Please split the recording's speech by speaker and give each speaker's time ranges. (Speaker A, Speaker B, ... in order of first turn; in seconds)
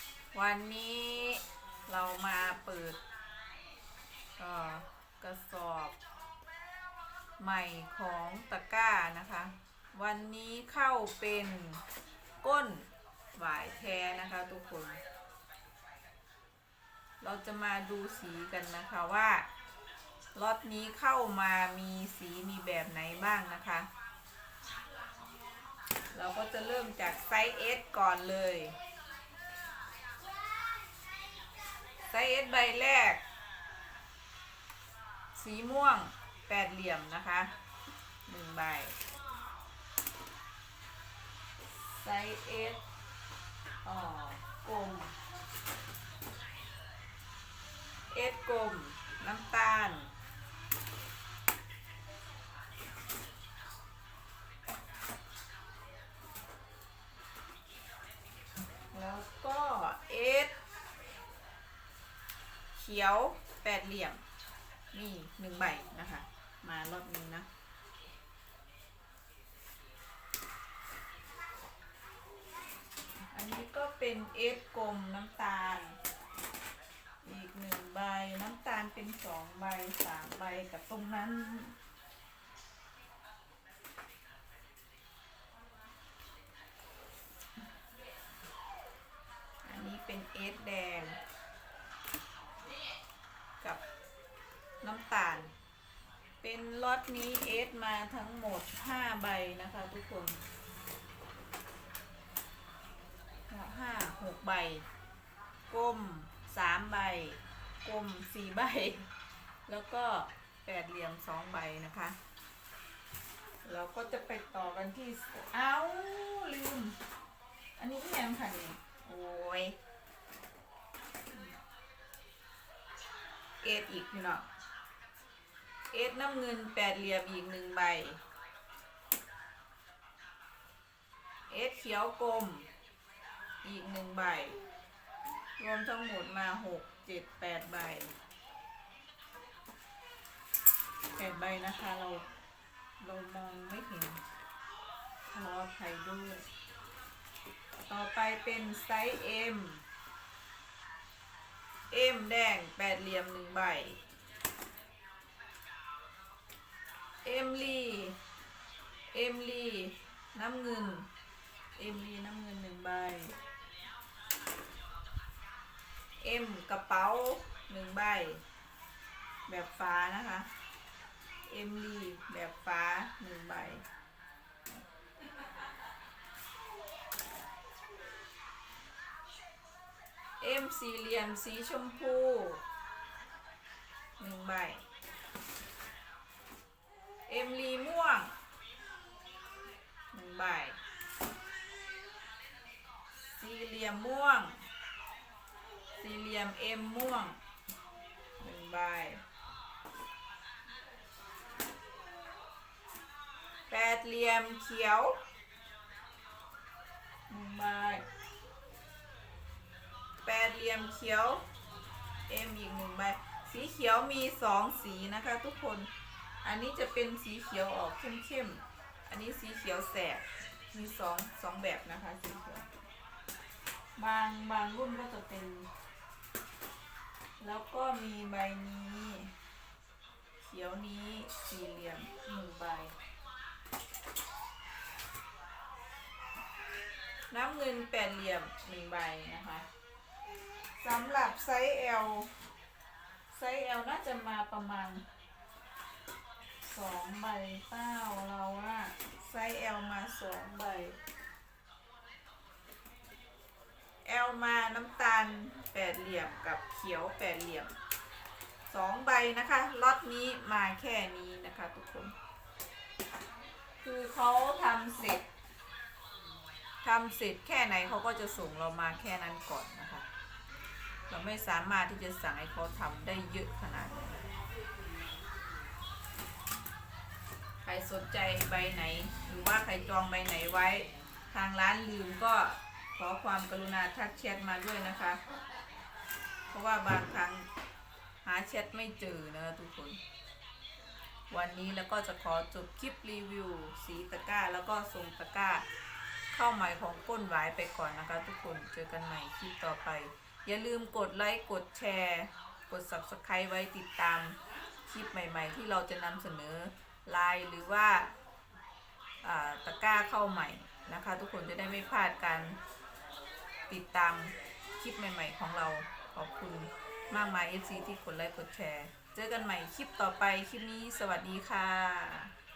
Speaker A: 0.3-3.0, 4.4-6.0, 7.4-11.8, 12.4-15.0, 17.2-19.5, 20.4-23.9, 26.1-28.8, 32.1-33.2, 35.4-37.5, 38.3-39.0, 41.8-42.8, 43.8-45.1, 48.1-50.1, 58.9-60.5, 62.7-64.2, 64.9-67.5, 73.3-76.0, 77.2-81.8, 89.6-91.2, 94.8-95.5, 96.4-100.4, 103.5-104.8, 105.7-109.1, 109.7-112.2, 113.6-117.0, 117.8-119.8, 123.6-124.5, 125.9-128.2, 131.5-132.7, 133.6-134.6, 135.6-138.1, 141.2-142.3, 143.0-144.2, 145.3-146.4, 147.9-149.8, 151.9-154.0, 157.2-158.2, 159.1-161.1, 161.8-163.3, 166.2-168.4, 169.5-170.5, 171.5-173.8, 180.4-182.6, 184.2-184.8, 187.3-188.3, 190.1-190.8, 193.2-194.6, 196.0-197.4, 198.4-199.2, 203.7-205.2, 207.3-208.1, 210.2-211.4, 212.3-215.9, 216.4-222.7, 224.0-225.7, 227.4-229.3, 230.4-232.9, 237.3-239.7, 240.8-242.3, 243.3-245.1, 246.6-251.0, 254.1-257.7, 258.7-262.1, 263.8-265.3, 266.8-270.1, 271.1-274.2, 277.6-285.2, 286.5-287.5, 288.2-290.0, 291.3-295.7, 296.3-308.1, 309.2-312.6, 313.7-322.3